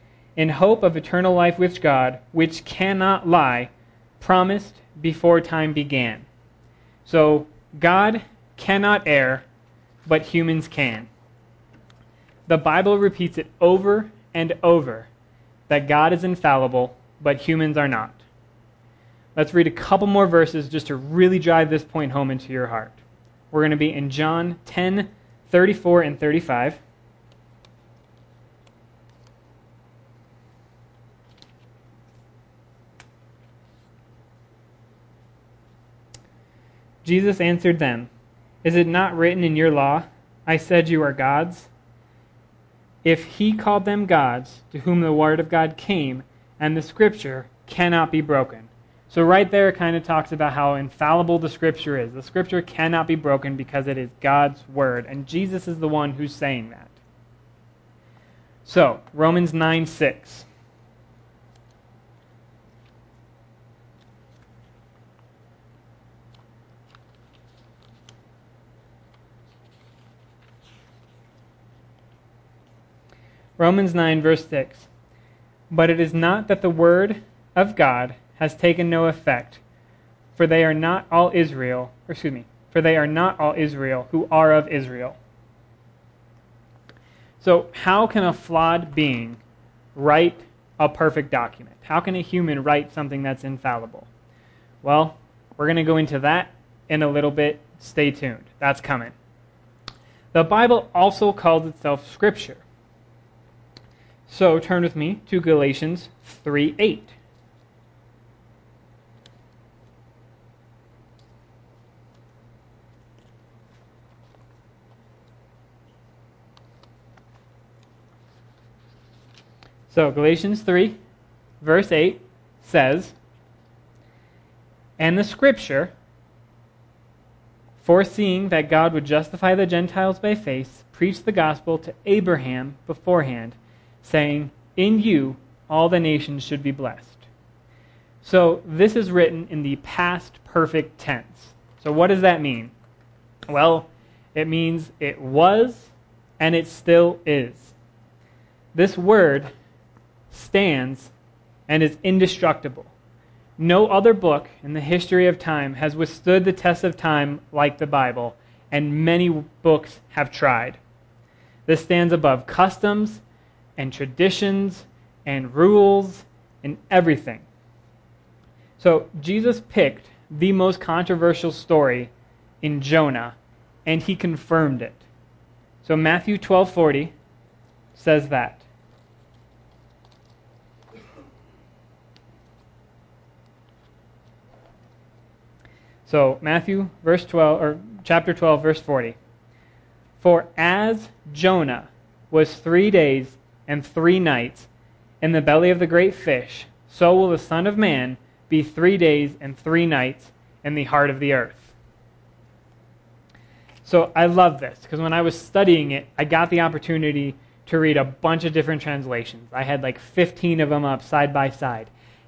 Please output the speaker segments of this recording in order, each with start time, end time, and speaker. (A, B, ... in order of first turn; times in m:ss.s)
0:00.4-0:06.3 A
0:07.1-0:09.5 A
0:10.1-0:11.1 A
0:12.5-0:15.1 A
0:15.7-0:18.2 A
0:19.4-0:23.0 A
0:23.5-0:26.8 A
0:37.0-0:38.1 A
0:38.6-0:41.7 A
0:43.0-0:56.9 A
0:58.6-1:00.5 A
1:13.6-1:14.9 A
1:15.7-1:19.6 A
1:20.4-1:25.2 A
1:27.4-1:29.4 A
1:30.0-1:34.1 A
1:34.8-1:39.1 A
1:40.3-1:42.6 A
1:44.3-1:47.1 A
1:59.9-2:01.0 A
2:01.6-2:03.2 A
2:05.0-2:05.9 A
2:07.8-2:17.2 A
2:18.2-2:22.7 A
2:23.5-2:27.8 A
2:28.7-2:29.5 A
2:30.3-2:31.1 A
2:31.7-2:32.9 A
2:33.6-2:40.8 A
2:41.7-2:43.2 A
2:43.8-2:47.4 A
2:48.8-2:52.1 A
2:52.6-2:55.0 A
2:55.8-2:57.1 A
2:58.0-2:58.6 A
3:06.1-3:09.2 A
3:10.2-3:14.7 A
3:15.2-3:21.7 A
3:23.8-3:31.9 A